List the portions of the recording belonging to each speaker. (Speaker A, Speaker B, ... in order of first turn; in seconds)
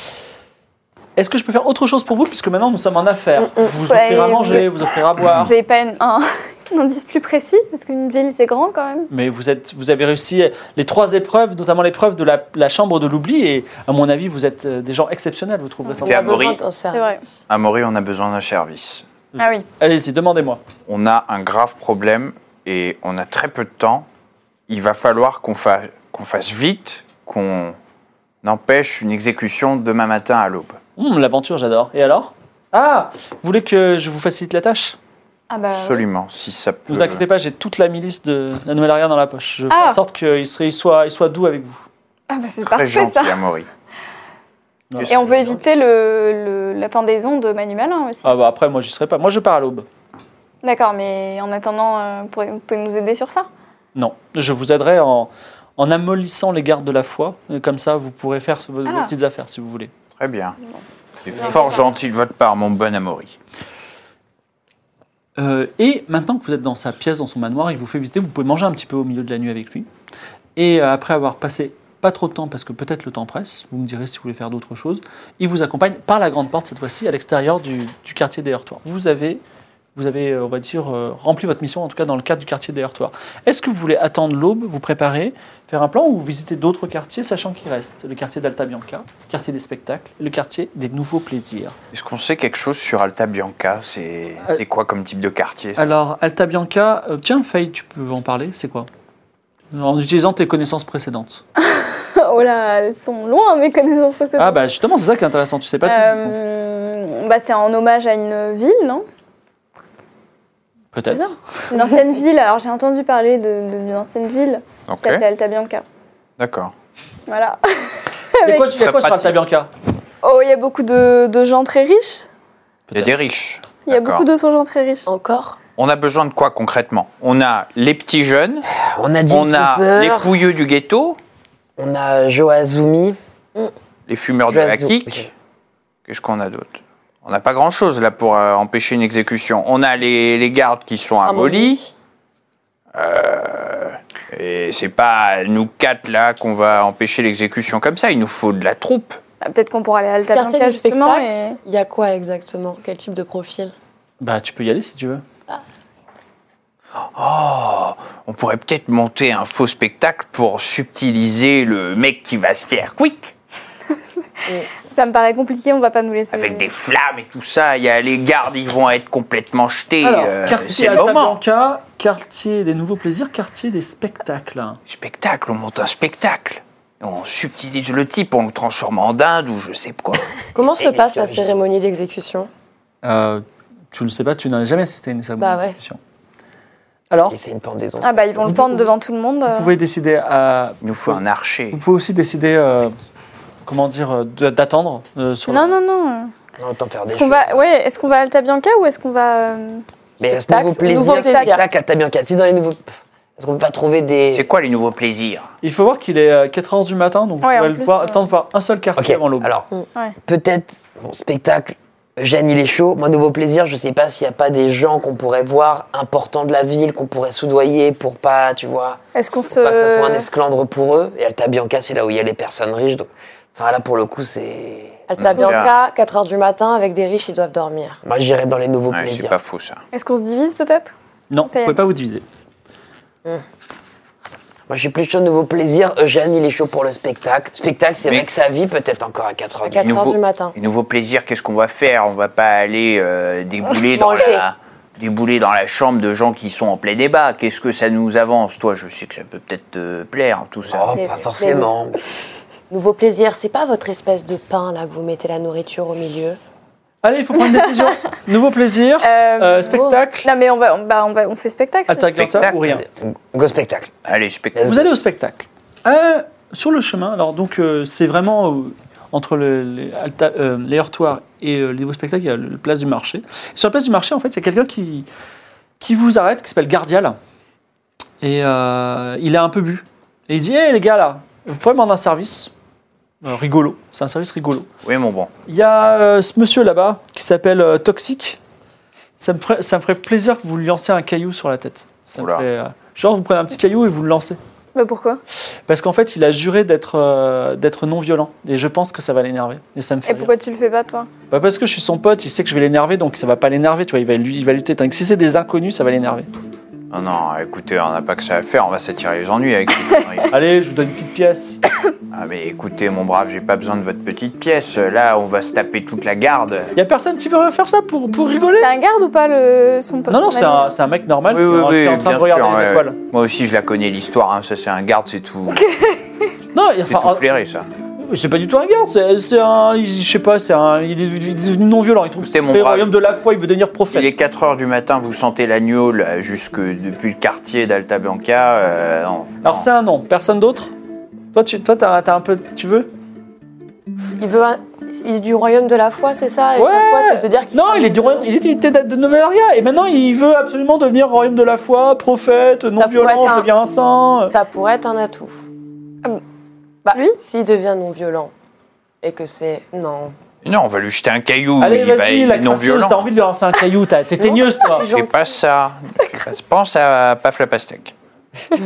Speaker A: 1.2-5.5, 9.1-16.5, 19.3-20.6, 31.0-35.0, 36.9-41.8, 44.9-45.5, 48.2-49.9, 54.0-59.9, 65.4-69.9, 70.6-79.4, 80.0-91.8, 95.8-98.9, 99.7-101.4, 104.4-106.4, 110.9-111.3, 118.4-119.7, 154.2-155.2, 170.0-174.8, 183.0-186.0, 187.1-187.4, 189.5-191.2, 191.7-192.9, 193.7-195.8, 205.6-209.5, 231.3-232.2, 257.0-260.3, 261.9-262.8, 264.6-275.1, 275.8-277.2, 278.2-282.5, 283.2-284.7, 285.5-288.4, 289.2-294.4, 295.7-300.3, 301.3-306.3, 310.3-311.6, 316.8-318.7, 320.1-323.0, 326.5-327.3, 328.0-334.1, 339.4-340.7, 341.3-342.9, 346.6-354.3, 361.6-364.9
Speaker B: 3.9-4.7, 5.3-9.1, 16.9-17.2, 19.4-19.6, 35.5-36.0, 39.7-40.0, 42.3-43.4, 45.1-48.3, 50.6-53.5, 58.9-59.1, 60.7-61.9, 101.6-104.6, 105.8-109.0, 111.1-115.8, 117.3-118.8, 120.2-122.3, 123.9-125.1, 149.4-151.6, 164.9-166.7, 188.0-189.7, 195.5-196.3, 197.1-199.8, 200.9-201.5, 207.4-208.2, 219.1-220.2, 229.9-230.9, 231.5-231.8, 259.0-262.2, 294.8-295.2, 300.1-301.1, 318.6-320.7, 325.6-325.9, 356.9-357.2
Speaker C: 16.0-17.2, 125.1-125.6, 141.3-141.9, 150.3-153.7, 180.6-182.5, 185.4-185.8, 200.2-201.6, 225.1-228.0, 239.7-240.6, 243.9-244.4, 250.9-251.7, 252.7-256.4, 344.2-348.3, 352.8-353.5, 354.3-355.5, 356.8-358.3, 359.0-360.1, 364.2-365.2
Speaker D: 16.1-16.6, 17.5-19.1, 20.9-24.1, 24.7-27.8, 28.4-30.8, 35.7-37.2, 42.6-43.7, 45.0-45.6, 60.2-60.6, 61.2-63.4, 91.9-95.9, 114.9-115.2, 116.4-116.7, 118.8-119.4, 122.9-124.2, 125.8-128.7, 129.3-131.2, 134.1-135.3, 136.1-141.8, 142.9-149.2, 157.0-163.3, 166.3-171.4, 174.9-180.2, 190.8-191.8, 204.3-205.5, 225.2-225.7, 228.9-229.8, 239.8-251.0, 262.1-262.6, 264.1-264.9, 284.8-285.3, 292.2-292.4, 306.9-310.3, 312.1-316.7, 321.3-325.6, 326.9-327.7, 332.2-332.9, 333.9-339.7, 360.4-363.1, 364.9-367.9
Speaker E: 128.7-130.4, 131.8-133.2, 134.5-135.3, 180.6-181.6, 187.3-188.9, 196.6-197.6, 200.2-204.5, 209.0-209.7, 210.2-225.1, 228.1-229.4, 234.7-240.1, 250.7-252.0, 262.6-264.0